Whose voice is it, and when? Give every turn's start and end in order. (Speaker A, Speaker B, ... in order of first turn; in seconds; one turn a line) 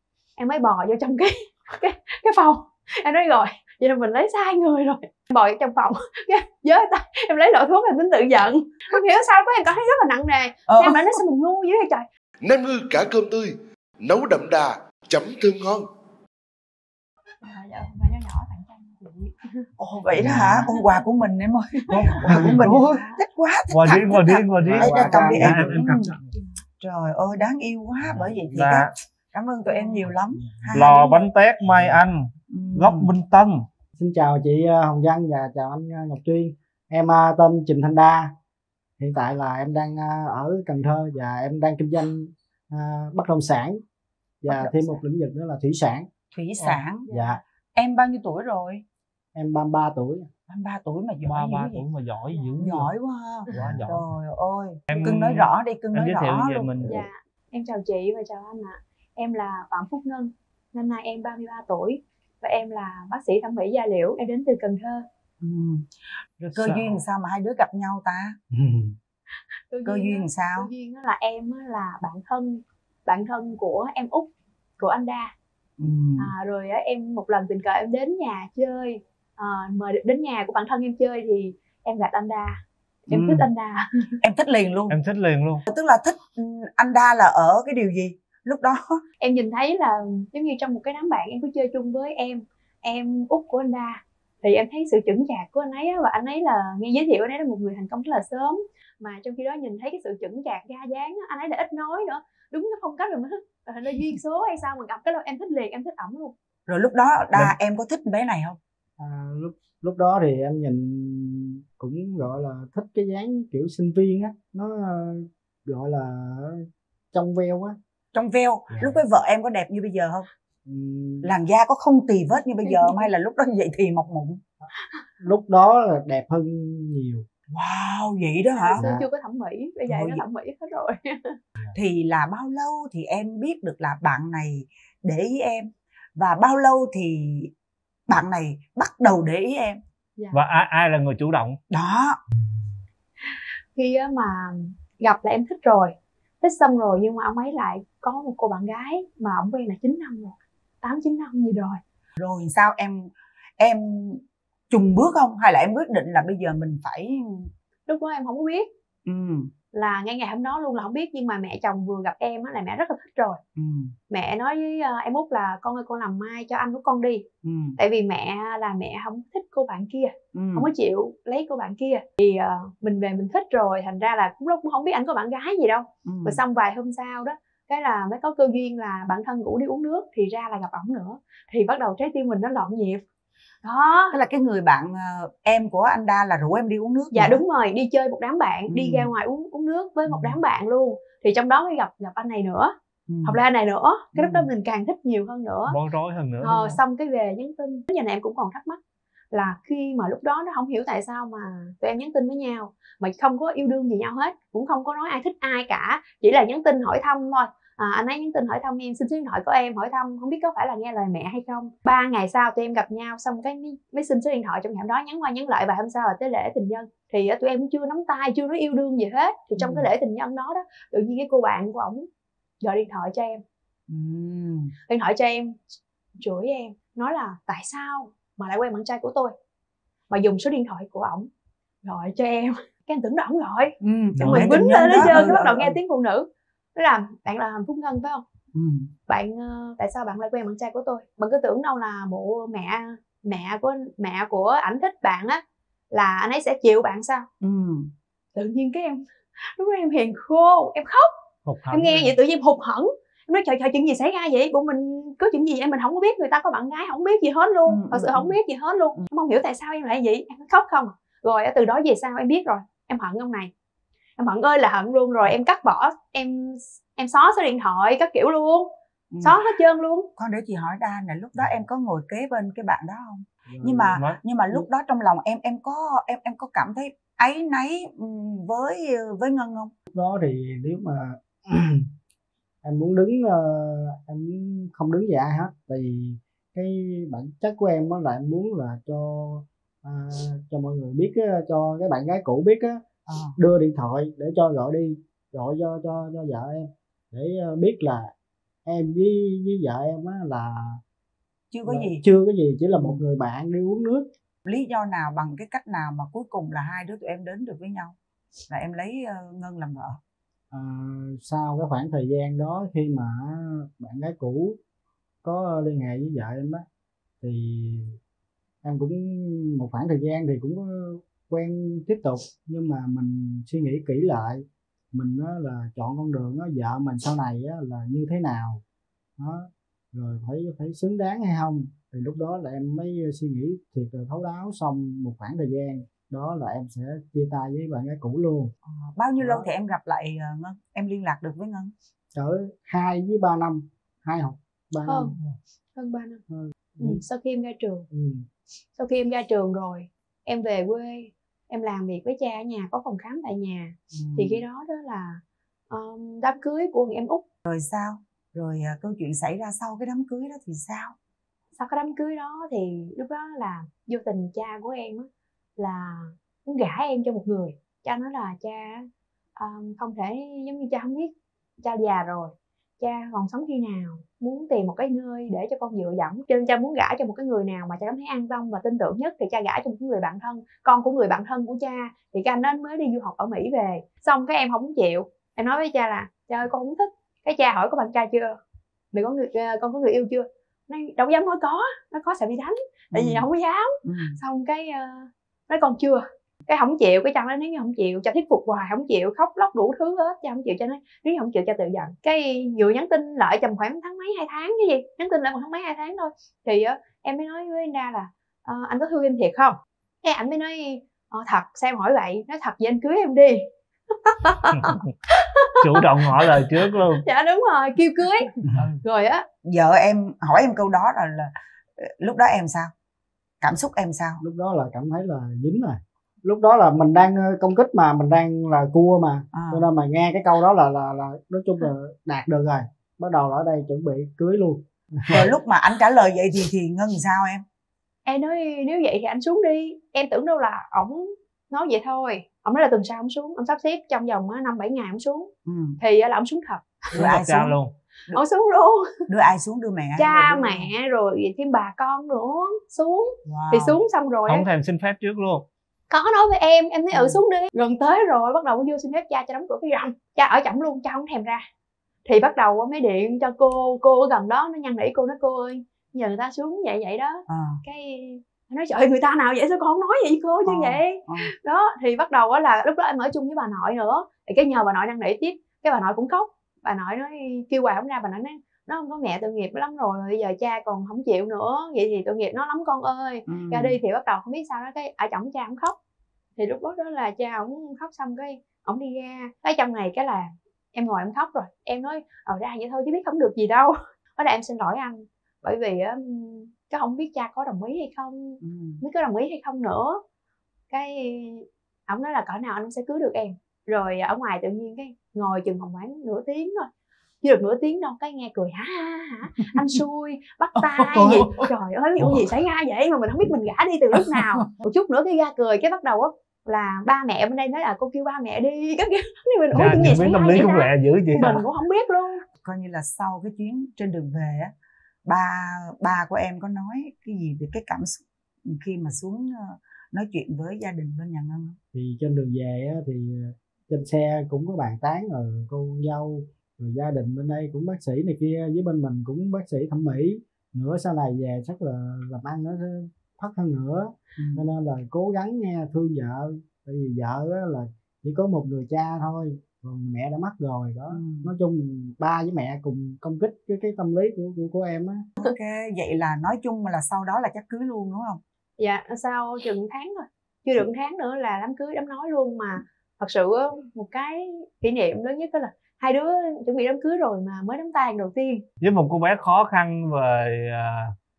Speaker A: 0.4-12.1
Speaker B: 10.7-11.2
Speaker C: 12.4-15.9
Speaker A: 17.4-19.5
Speaker B: 19.8-26.1
Speaker D: 20.2-20.6
Speaker E: 20.2-20.6
Speaker A: 21.9-23.2
Speaker E: 21.9-23.0
Speaker D: 22.3-22.6
Speaker E: 23.7-26.1
Speaker D: 24.7-26.2
Speaker B: 26.8-31.3
Speaker D: 28.1-28.5
Speaker E: 28.6-28.9
Speaker A: 29.7-30.0
Speaker E: 30.7-32.2
Speaker B: 32.5-33.1
Speaker E: 32.7-33.6
Speaker D: 34.0-38.3
Speaker D: 39.0-43.8
Speaker D: 44.4-46.1
Speaker B: 44.5-45.0
Speaker B: 46.3-47.1
Speaker A: 47.1-47.4
Speaker D: 47.1-47.4
Speaker B: 47.8-48.8
Speaker D: 49.4-50.3
Speaker B: 50.5-51.8
Speaker E: 51.2-52.9
Speaker B: 52.6-56.9
Speaker E: 53.5-54.1
Speaker D: 53.5-53.9
Speaker E: 54.9-56.9
Speaker A: 56.9-65.0
Speaker B: 65.4-65.9
Speaker B: 66.4-68.4
Speaker D: 68.5-69.0
Speaker A: 69.7-75.3
Speaker B: 69.9-70.7
Speaker B: 75.8-76.3
Speaker A: 76.2-84.1
Speaker B: 83.1-83.5
Speaker B: 84.2-85.0
Speaker E: 84.9-85.6
Speaker B: 85.7-89.0
Speaker A: 89.2-106.3
Speaker B: 106.7-108.6
Speaker D: 109.0-117.8
Speaker B: 118.1-120.3
Speaker D: 120.7-121.3
Speaker B: 121.2-124.4
Speaker A: 122.7-123.0
Speaker D: 125.2-127.3
Speaker B: 127.5-128.8
Speaker A: 128.6-131.4
Speaker D: 128.8-129.1
Speaker B: 129.9-130.2
Speaker B: 131.7-137.5
Speaker B: 138.1-139.8
Speaker E: 140.3-141.6
Speaker B: 141.7-142.2
Speaker A: 143.3-151.8
Speaker B: 152.2-157.5
Speaker A: 157.9-158.7
Speaker B: 159.1-159.5
Speaker A: 159.7-163.4
Speaker B: 163.6-163.9
Speaker A: 164.1-167.2
Speaker B: 167.4-167.8
Speaker A: 167.8-183.0
Speaker B: 170.3-170.7
Speaker B: 176.1-176.4
Speaker A: 183.6-184.2
Speaker B: 184.1-187.4
Speaker A: 187.1-192.7
Speaker B: 188.7-189.1
Speaker B: 190.1-190.4
Speaker B: 193.1-193.4
Speaker A: 193.2-195.8
Speaker B: 194.2-194.5
Speaker E: 195.7-196.8
Speaker A: 196.4-198.8
Speaker A: 199.3-222.1
Speaker B: 219.6-219.9
Speaker A: 222.6-223.4
Speaker B: 223.9-224.7
Speaker A: 224.9-225.6
Speaker A: 226.2-229.3
Speaker A: 230.1-231.3
Speaker A: 231.8-238.2
Speaker B: 233.8-235.8
Speaker D: 234.2-235.3
Speaker B: 238.5-238.9
Speaker A: 239.1-247.3
Speaker B: 247.4-247.9
Speaker A: 248.3-251.1
Speaker E: 251.5-252.2
Speaker A: 251.7-263.5
Speaker B: 257.7-258.4
Speaker A: 264.2-268.7
Speaker B: 269.1-269.4
Speaker A: 269.2-270.1
Speaker B: 270.2-279.7
Speaker D: 273.5-274.0
Speaker D: 279.9-281.9
Speaker D: 282.6-298.1
Speaker B: 293.1-293.4
Speaker D: 298.6-300.8
Speaker B: 301.5-302.0
Speaker D: 301.7-304.1
Speaker B: 302.7-303.0
Speaker B: 304.4-308.0
Speaker B: 308.5-310.0
Speaker D: 310.5-314.6
Speaker D: 315.2-316.6
Speaker D: 317.2-318.0
Speaker D: 318.6-328.6
Speaker D: 329.2-338.5
Speaker B: 338.6-341.7
Speaker D: 339.2-339.5
Speaker D: 342.1-345.4
Speaker A: 344.9-345.1
Speaker A: 345.8-346.2
Speaker D: 346.3-347.0
Speaker A: 346.8-347.9
Speaker D: 347.9-348.2
Speaker A: 348.8-357.2
Speaker B: 353.9-354.4
Speaker B: 357.5-360.9
Speaker A: 361.6-371.1
Speaker A: 371.6-388.4
Speaker A: 388.9-413.5
Speaker B: 392.9-393.3
Speaker B: 393.8-394.2
Speaker A: 414.1-415.9
Speaker E: 414.5-414.8
Speaker E: 415.6-417.1
Speaker A: 417.0-418.3
Speaker E: 418.5-418.8
Speaker A: 418.8-419.2
Speaker B: 419.4-422.7
Speaker B: 423.4-424.2
Speaker D: 424.2-435.3
Speaker B: 429.3-429.6
Speaker B: 435.1-437.4
Speaker A: 438.1-446.8
Speaker B: 445.5-445.8
Speaker B: 446.9-447.6
Speaker E: 446.9-447.7
Speaker A: 448.1-449.0
Speaker B: 449.1-450.7
Speaker A: 450.0-454.5
Speaker B: 453.3-453.8
Speaker E: 454.3-455.5
Speaker A: 455.9-461.4
Speaker B: 456.9-457.2
Speaker A: 462.1-485.8
Speaker B: 467.3-467.6
Speaker B: 470.4-471.3
Speaker B: 483.3-483.8
Speaker A: 486.4-500.0
Speaker B: 498.4-498.8
Speaker A: 500.7-506.7
Speaker A: 507.2-522.2
Speaker B: 510.9-511.5
Speaker B: 512.0-512.3
Speaker B: 514.0-514.5
Speaker E: 519.5-521.4
Speaker B: 522.4-524.5
Speaker B: 525.1-531.6
Speaker D: 531.7-555.0
Speaker B: 544.2-544.5
Speaker B: 550.9-551.3
Speaker B: 555.2-558.2
Speaker A: 558.6-568.4
Speaker E: 568.6-570.9